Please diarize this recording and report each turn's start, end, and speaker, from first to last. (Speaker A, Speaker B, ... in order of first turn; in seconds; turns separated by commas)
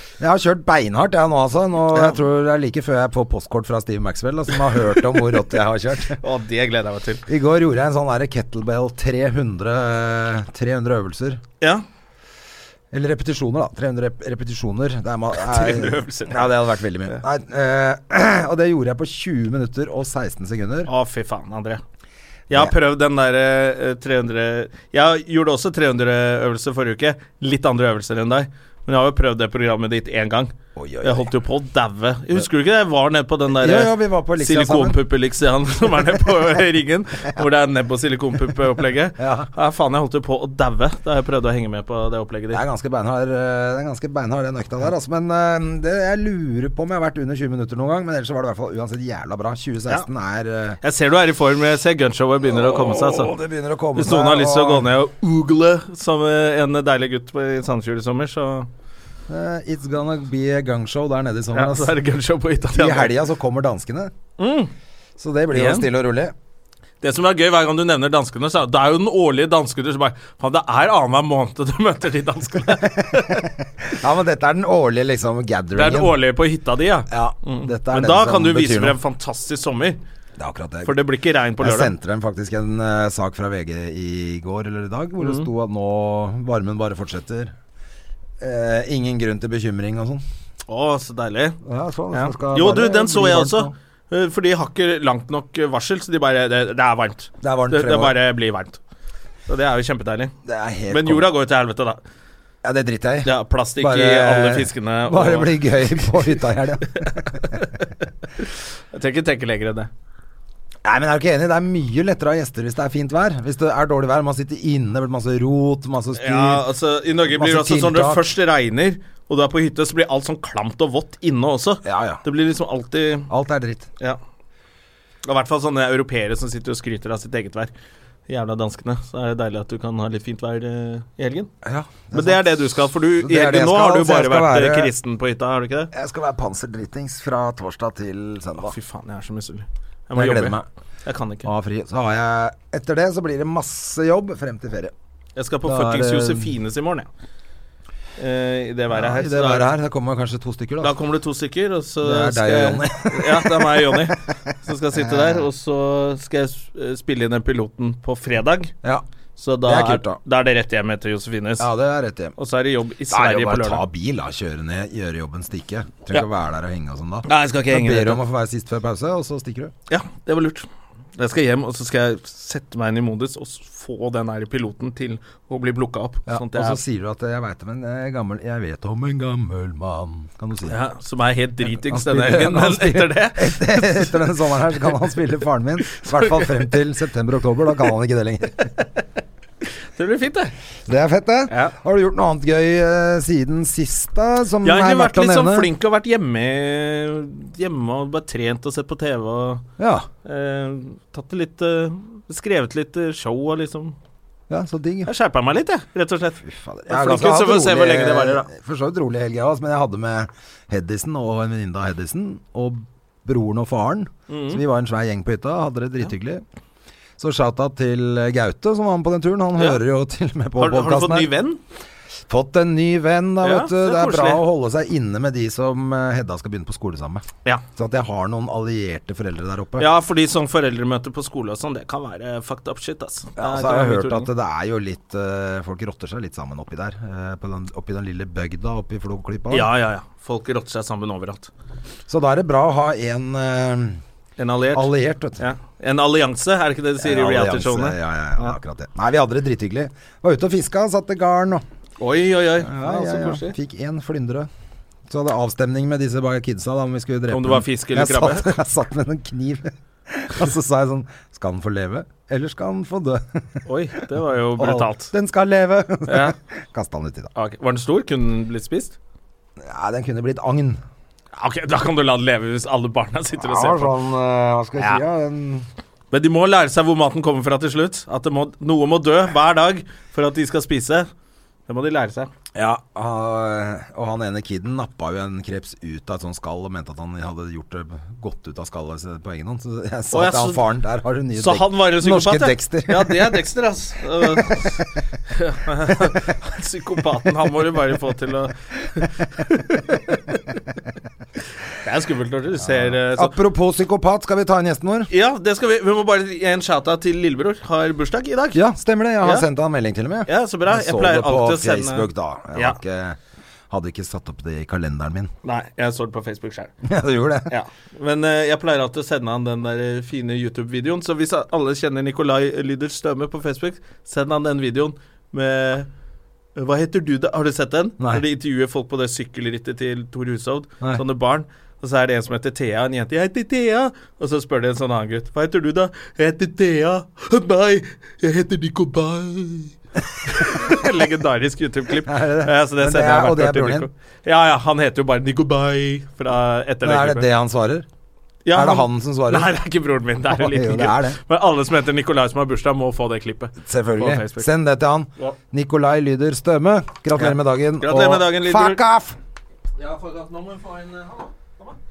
Speaker A: 0.2-6.2, Speaker B: 6.2-7.2, Speaker A: 7.3-11.4, Speaker A: 12.9-20.9, Speaker B: 15.4-16.6, Speaker B: 20.9-21.8, Speaker B: 22.5-42.6, Speaker A: 30.8-31.3, Speaker A: 33.5-35.0, Speaker A: 39.2-39.5, Speaker A: 42.5-50.8, Speaker B: 50.8-53.3, Speaker A: 52.4-54.9, Speaker B: 54.0-58.7, Speaker A: 59.3-61.9, Speaker B: 61.5-63.1, Speaker A: 62.7-64.1, Speaker B: 64.4-64.7, Speaker A: 65.2-66.3, Speaker B: 65.5-65.9, Speaker B: 67.0-73.5, Speaker A: 73.0-76.2, Speaker B: 75.7-80.0, Speaker A: 77.1-79.0, Speaker A: 80.4-81.0, Speaker B: 80.8-81.9, Speaker A: 81.6-87.5, Speaker B: 85.2-85.5, Speaker A: 88.4-90.2, Speaker B: 90.7-91.6, Speaker A: 91.6-93.7, Speaker B: 92.1-98.8, Speaker A: 97.4-98.2, Speaker B: 99.5-100.3, Speaker A: 100.4-101.3, Speaker B: 100.9-102.0, Speaker A: 102.6-107.6, Speaker B: 103.2-106.3, Speaker B: 106.9-107.7, Speaker B: 108.4-109.9, Speaker A: 110.8-116.6, Speaker B: 116.2-123.3, Speaker A: 117.2-118.3, Speaker A: 121.8-122.2, Speaker A: 123.3-123.9, Speaker B: 125.2-127.7, Speaker B: 128.3-131.5, Speaker A: 131.6-134.9, Speaker B: 132.1-135.9, Speaker A: 135.9-138.7, Speaker B: 138.6-141.5, Speaker A: 140.1-140.6, Speaker A: 141.4-144.9, Speaker B: 145.3-147.1, Speaker A: 145.6-146.5, Speaker B: 148.2-149.7, Speaker A: 148.9-150.9, Speaker B: 150.8-158.7, Speaker A: 152.0-154.1, Speaker A: 154.9-155.5, Speaker B: 159.4-161.7, Speaker A: 159.6-160.2, Speaker A: 161.6-162.3, Speaker B: 162.4-163.8, Speaker A: 163.1-169.7, Speaker B: 167.2-168.2, Speaker B: 169.9-176.8, Speaker A: 176.3-180.8, Speaker B: 180.7-184.2, Speaker A: 181.7-188.6, Speaker B: 185.9-186.6, Speaker B: 189.9-190.5, Speaker A: 190.8-195.7, Speaker B: 191.5-191.7, Speaker B: 194.6-199.6, Speaker A: 199.8-200.1, Speaker B: 200.2-203.9, Speaker A: 204.5-205.1, Speaker B: 205.1-208.5, Speaker A: 206.4-216.4, Speaker B: 214.3-214.6, Speaker A: 217.2-221.3, Speaker B: 220.6-221.6, Speaker A: 222.3-229.9, Speaker B: 223.4-224.4, Speaker B: 229.8-234.3, Speaker A: 233.4-239.7, Speaker B: 239.5-241.5, Speaker A: 242.1-244.0, Speaker B: 244.4-248.6, Speaker A: 244.7-245.4, Speaker A: 247.0-251.6, Speaker B: 252.0-253.6, Speaker A: 252.6-254.5, Speaker A: 255.1-263.6, Speaker B: 257.3-258.5, Speaker B: 263.6-265.1, Speaker A: 264.6-267.3, Speaker B: 266.1-266.3, Speaker B: 267.4-268.9, Speaker A: 269.6-270.8, Speaker B: 271.4-273.9, Speaker A: 273.4-275.7, Speaker B: 276.1-281.1, Speaker B: 281.7-282.3, Speaker A: 282.5-293.4, Speaker B: 290.1-290.6, Speaker B: 291.4-300.4, Speaker A: 294.4-294.7, Speaker B: 301.8-303.4, Speaker A: 302.6-305.1, Speaker B: 305.1-308.6, Speaker A: 308.5-313.2, Speaker B: 309.2-309.5, Speaker B: 310.3-312.8, Speaker A: 313.7-315.3, Speaker B: 315.4-316.7, Speaker A: 316.8-317.5, Speaker B: 317.5-325.9, Speaker B: 326.6-347.3, Speaker A: 342.0-343.9, Speaker A: 346.8-347.9, Speaker B: 348.4-354.5, Speaker A: 348.5-349.5, Speaker A: 350.3-351.2, Speaker A: 353.6-359.2, Speaker B: 357.1-358.8, Speaker B: 359.8-361.8